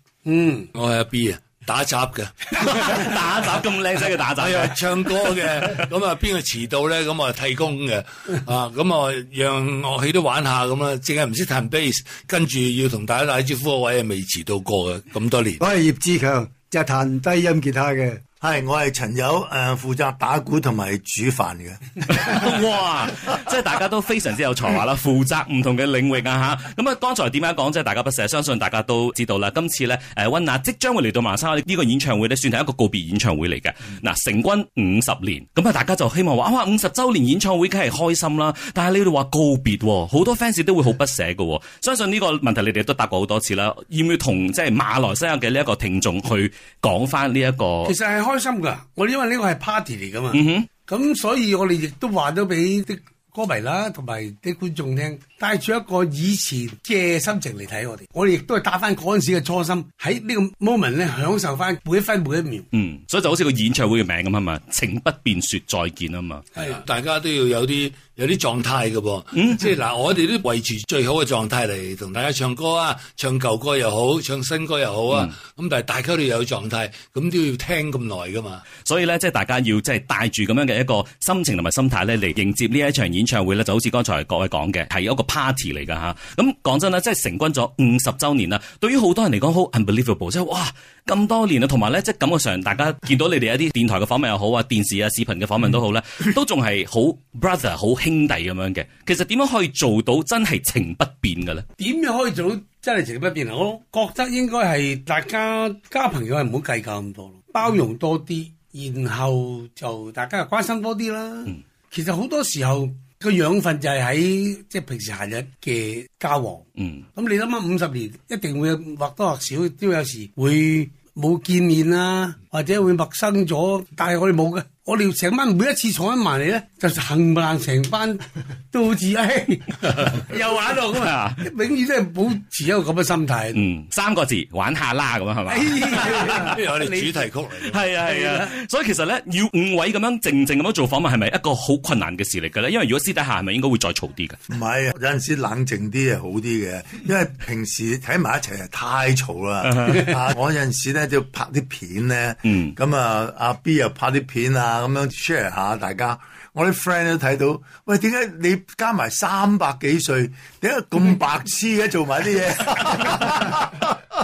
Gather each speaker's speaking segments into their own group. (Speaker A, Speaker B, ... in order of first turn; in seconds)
Speaker A: 0.2-0.7, 47.8-62.7, 101.8-116.6, 117.2-133.6, 135.5-137.3, 138.0-138.5
Speaker B: 0.7-3.1, 4.4-15.6, 66.6-78.7, 136.5-137.9
Speaker C: 2.5-5.9, 22.1-47.9, 50.3-50.7, 62.7-66.5, 69.3-69.7, 78.8-101.7, 116.8-117.0, 131.0-131.4, 133.5-136.6, 137.7-144.4, 149.7-150.1, 152.5-152.8
Speaker D: 15.6-18.2
Speaker E: 18.4-22.4, 144.5-164.0